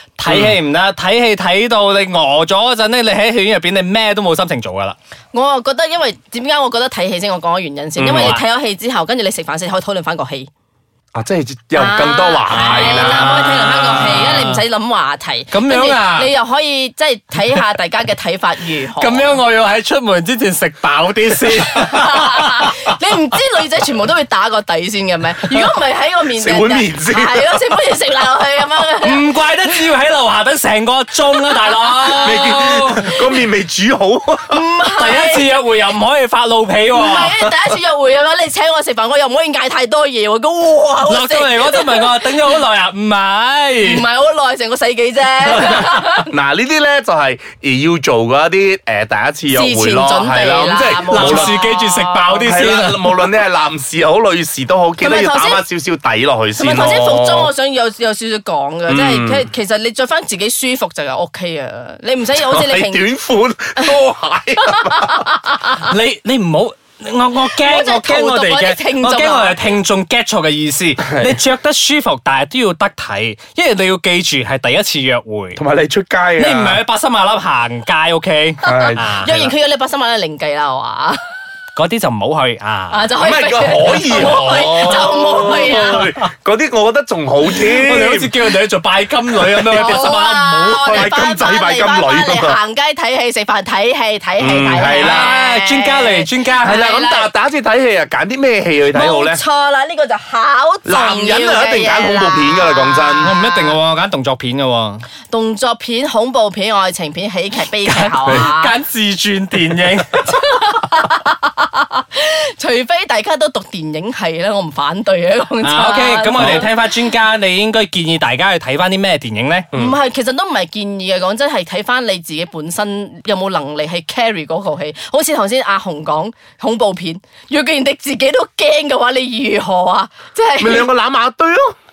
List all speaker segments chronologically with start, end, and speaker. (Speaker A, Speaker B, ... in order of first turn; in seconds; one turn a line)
Speaker A: 0.2-5.0
Speaker B: 0.3-0.6
Speaker C: 5.3-10.5
Speaker B: 8.0-8.4
Speaker A: 8.0-8.4
Speaker B: 11.1-13.4
Speaker C: 11.8-19.4
Speaker A: 12.5-14.6
Speaker A: 15.5-16.3
Speaker A: 18.9-22.9
Speaker C: 21.8-29.2
Speaker B: 26.4-27.6
Speaker A: 29.0-33.1
Speaker C: 32.1-33.2
Speaker B: 32.2-34.6
Speaker C: 34.5-35.6
Speaker A: 35.0-37.3
Speaker C: 36.9-42.3
Speaker A: 41.1-44.1
Speaker C: 43.8-46.3
Speaker A: 45.4-46.0
Speaker B: 46.3-51.6
Speaker C: 49.5-52.4
Speaker A: 50.8-53.3
Speaker B: 52.3-57.5
Speaker C: 55.0-55.6
Speaker C: 56.6-63.1
Speaker B: 58.9-59.5
Speaker B: 62.3-65.3
Speaker C: 64.6-65.7
Speaker A: 65.8-75.6
Speaker C: 67.6-69.6
Speaker B: 75.6-76.8
Speaker A: 76.3-79.5
Speaker B: 78.6-79.2
Speaker C: 78.7-81.2
Speaker A: 81.8-83.1
Speaker C: 82.9-86.0
Speaker B: 83.2-88.3
Speaker A: 84.1-86.2
Speaker A: 87.4-91.1
Speaker B: 89.5-90.0
Speaker C: 89.7-97.3
Speaker B: 90.9-92.6
Speaker B: 94.4-95.3
Speaker A: 94.8-96.8
Speaker B: 96.6-99.4
Speaker C: 98.9-103.8
Speaker B: 100.8-103.3
Speaker A: 103.2-105.0
Speaker C: 105.3-108.7
Speaker A: 107.8-110.5
Speaker C: 110.2-116.7
Speaker A: 115.6-119.7
Speaker B: 116.3-116.7
Speaker C: 119.7-130.9
Speaker B: 130.6-131.8